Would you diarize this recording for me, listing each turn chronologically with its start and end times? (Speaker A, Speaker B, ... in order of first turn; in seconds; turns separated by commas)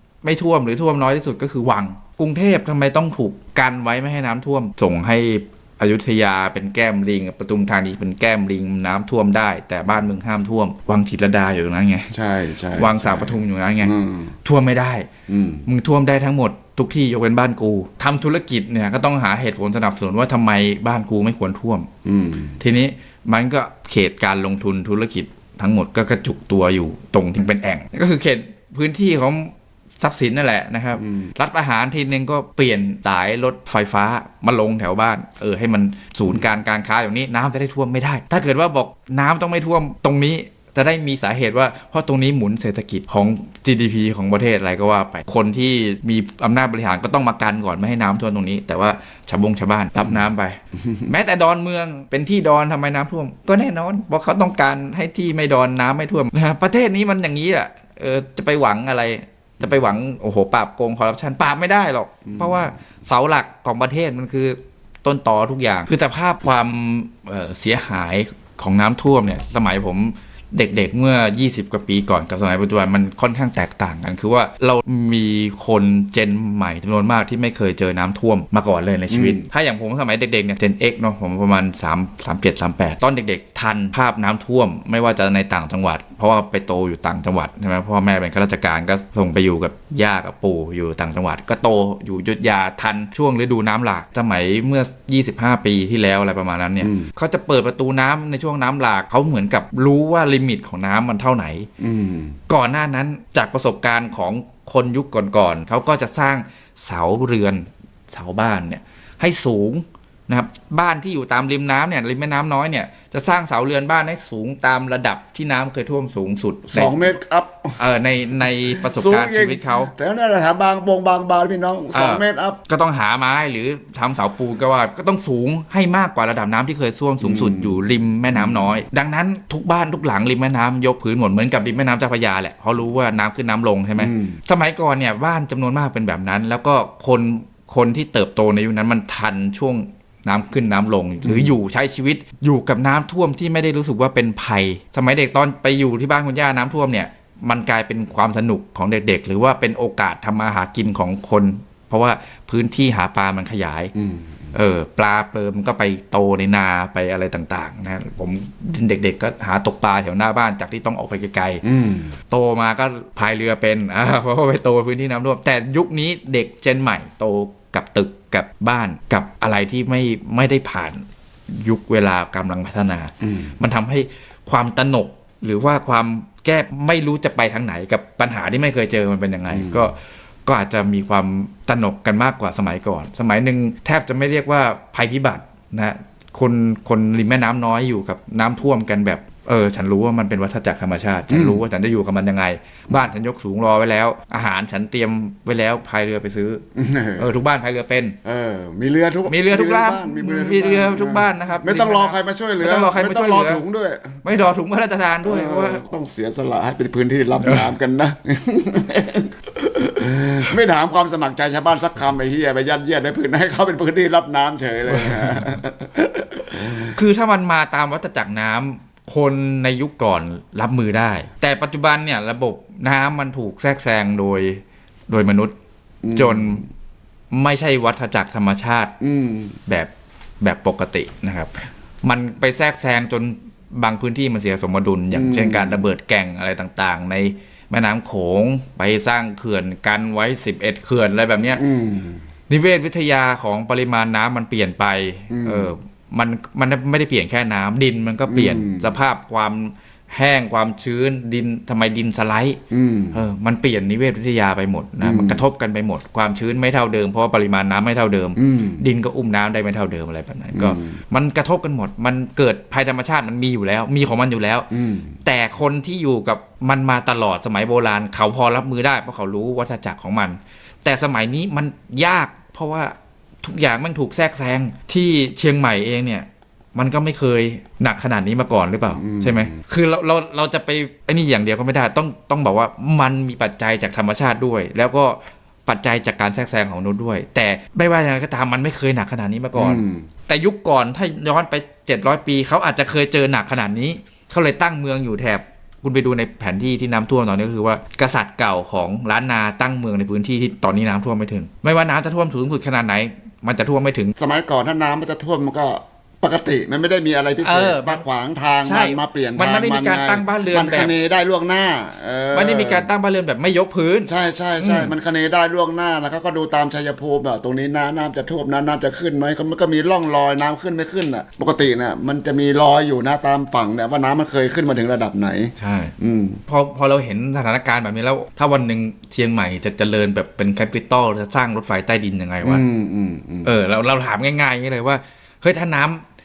Speaker A: 0.2-12.1, Speaker B: 12.1-14.3, Speaker A: 12.7-13.9, Speaker A: 14.4-15.1, Speaker B: 15.3-15.7, Speaker A: 15.7-21.9, Speaker B: 22.0-22.6, Speaker A: 22.6-101.7, Speaker B: 31.0-31.3, Speaker B: 62.3-62.7, Speaker B: 79.1-79.5, Speaker B: 96.8-97.1, Speaker B: 101.8-102.4, Speaker A: 102.5-117.1, Speaker B: 116.7-118.0, Speaker A: 117.8-119.9, Speaker B: 118.5-122.6, Speaker A: 121.9-153.9, Speaker B: 127.2-128.8, Speaker B: 134.0-134.4, Speaker B: 141.2-141.5, Speaker B: 153.9-154.5, Speaker A: 154.5-161.6, Speaker B: 161.6-162.2, Speaker A: 162.3-196.6, Speaker B: 179.5-179.9, Speaker B: 191.3-191.6, Speaker B: 196.7-197.3, Speaker A: 197.2-198.2, Speaker B: 198.2-204.2, Speaker A: 199.3-203.6, Speaker A: 204.2-205.8, Speaker B: 205.2-217.0, Speaker A: 215.0-215.3, Speaker A: 216.8-225.5, Speaker B: 226.0-226.6, Speaker A: 226.1-226.7, Speaker A: 227.3-228.9, Speaker B: 229.0-229.6, Speaker A: 230.4-241.6, Speaker B: 235.1-235.9, Speaker B: 241.5-242.2, Speaker A: 242.5-252.6, Speaker B: 245.3-245.7, Speaker B: 248.3-248.9, Speaker B: 252.7-253.2, Speaker A: 253.1-264.7, Speaker B: 255.0-255.4, Speaker B: 258.4-258.8, Speaker B: 260.5-260.9, Speaker B: 264.7-265.2, Speaker A: 265.2-304.1, Speaker B: 278.9-279.5, Speaker B: 289.6-290.1, Speaker B: 304.2-312.9, Speaker A: 307.4-308.0, Speaker A: 308.6-310.9, Speaker A: 312.3-314.9, Speaker B: 314.1-326.4, Speaker A: 325.6-325.9, Speaker A: 326.5-332.6, Speaker B: 332.4-333.5, Speaker A: 333.4-336.0